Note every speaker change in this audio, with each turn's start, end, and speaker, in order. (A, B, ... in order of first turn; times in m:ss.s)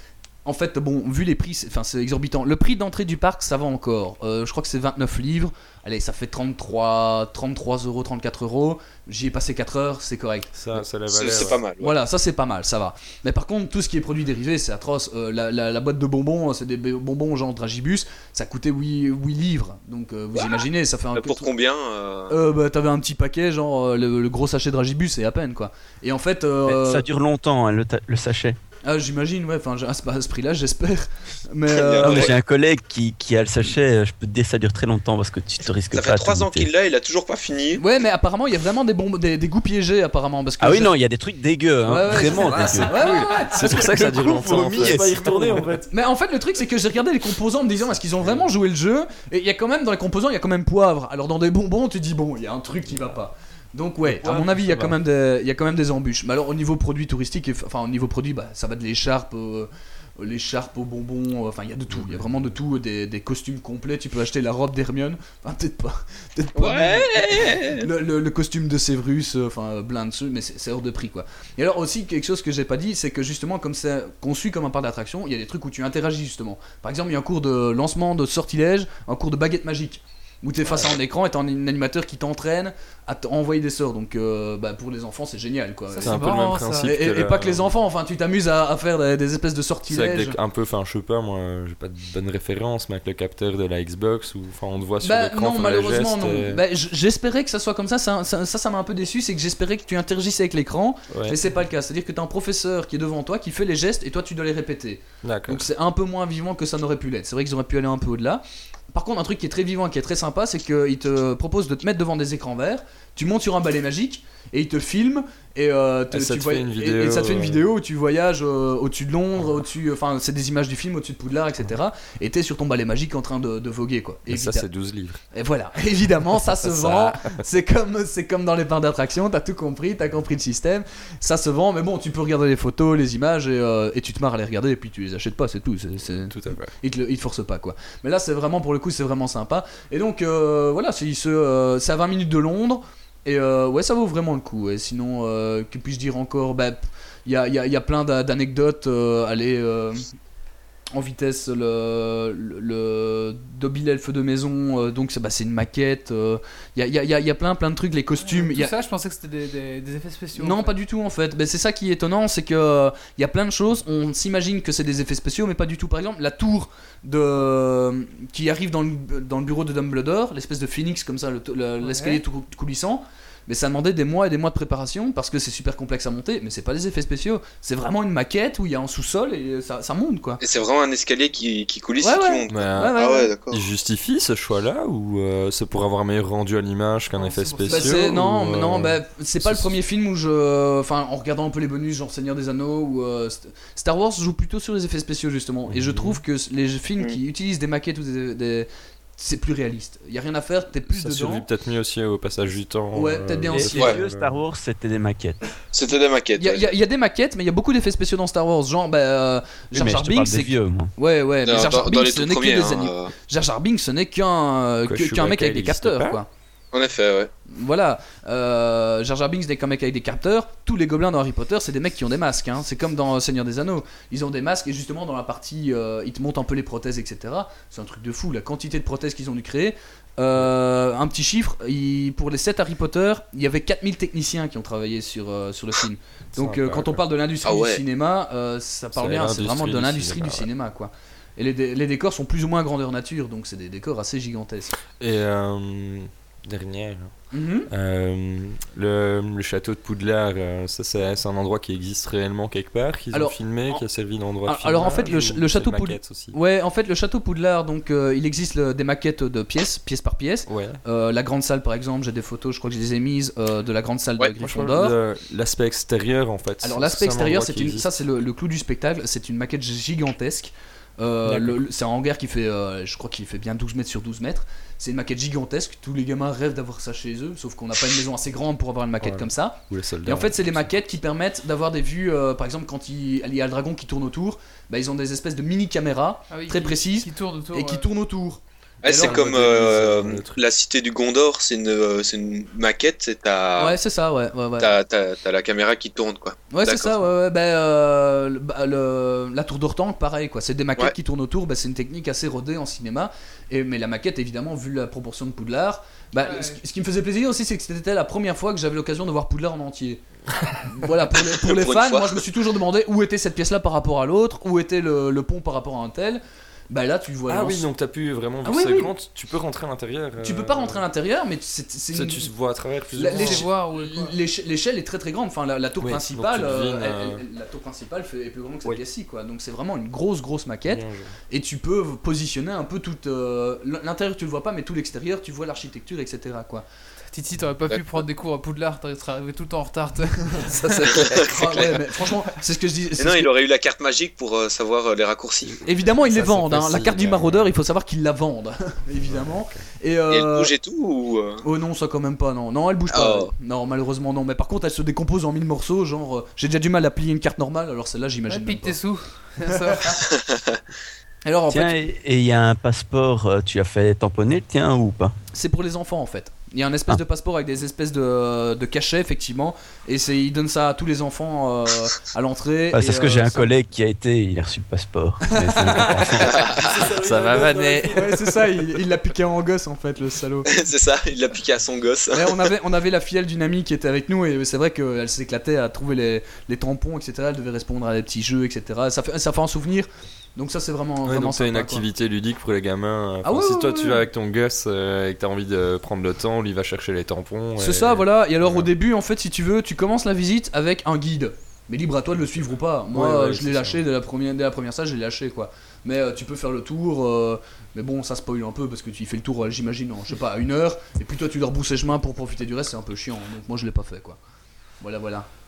0:00.4-0:10.8 A
0:10.5-0:11.6 B
0:11.1-0:11.9 C
0:11.8-0:21.5 A
0:20.3-0:22.4 C
0:22.3-0:27.1 A
0:26.6-0:28.6 D
0:28.8-0:32.3 A
0:31.7-0:32.3 C
0:32.0-0:36.7 D
0:35.9-0:37.8 C
0:37.8-0:41.0 A
0:40.6-0:43.0 D
0:41.8-0:44.3 A
0:42.1-0:45.6 B
0:43.6-0:45.4 D
0:44.8-0:45.9 E
0:45.9-1:30.4 A
0:48.2-0:48.5 B
0:52.9-0:53.2 B
0:54.0-0:55.0 B
1:01.9-1:02.6 B
1:06.6-1:07.9 C
1:25.9-1:26.9 F
1:26.0-1:27.8 B
1:29.9-1:36.6 B
1:35.0-2:04.7 A
1:41.1-1:41.6 B
1:45.2-1:45.7 B
1:56.1-1:57.7 B
2:04.2-2:05.2 B
2:05.3-2:30.1 A
2:06.6-2:07.4 B
2:16.0-2:16.8 B
2:30.9-2:38.7 A
2:38.2-2:40.7 F
2:40.4-3:00.4 A
2:51.8-2:52.2 F
3:00.4-3:03.6 C
3:02.0-3:03.3 A
3:02.5-3:09.8 B
3:07.1-3:08.0 F
3:07.7-3:21.4 A
3:15.7-3:16.2 B
3:20.9-3:24.5 B
3:22.9-3:24.0 A
3:23.6-3:25.4 D
3:25.7-3:26.7 C
3:26.4-3:36.3 A
3:29.7-3:30.9 D
3:31.4-3:33.1 C
3:34.8-3:36.2 B
3:36.7-3:37.3 C
3:37.5-4:04.7 A
3:56.4-3:57.0 B
3:57.4-3:57.8 C
3:58.9-4:00.5 B
4:04.9-4:16.4 B
4:07.3-4:07.7 A
4:13.1-4:13.8 A
4:14.4-4:25.0 A
4:20.5-4:20.8 B
4:24.4-4:27.9 B
4:26.6-4:49.6 A
4:31.2-4:31.6 B
4:39.0-4:40.7 B
4:46.3-4:47.9 F
4:48.8-4:53.8 C
4:48.9-4:50.4 B
4:53.6-4:54.7 A
4:54.6-4:57.0 C
4:56.5-5:10.0 A
5:06.2-5:06.6 F
5:10.6-5:17.7 A
5:11.1-5:12.2 C
5:17.3-5:20.8 B
5:18.4-5:18.9 A
5:20.2-5:22.3 A
5:21.9-5:23.6 B
5:22.9-5:36.6 A
5:23.0-5:24.1 F
5:25.8-5:27.2 B
5:30.6-5:31.2 B
5:37.0-5:40.5 F
5:40.4-5:41.7 B
5:41.2-5:41.8 C
5:41.2-5:43.3 A
5:43.0-5:45.5 C
5:45.4-5:47.6 B
5:45.6-5:50.5 A
5:49.0-5:49.7 B
5:50.1-5:51.4 C
5:51.4-5:58.9 A
5:52.9-5:53.3 C
5:58.3-5:59.9 F
5:59.4-6:00.0 A
6:00.1-6:00.6 C
6:01.2-6:01.8 A
6:01.5-6:05.1 D
6:05.3-6:13.5 A
6:12.7-6:16.4 D
6:15.3-6:15.9 A
6:15.7-6:18.1 B
6:16.2-6:16.8 C
6:16.5-6:18.4 E
6:17.9-6:20.5 A
6:20.5-6:22.4 C
6:22.1-6:31.8 A
6:31.0-6:38.7 B
6:33.2-6:34.0 A
6:37.6-6:54.2 A
6:42.9-6:43.8 B
6:54.8-6:55.3 A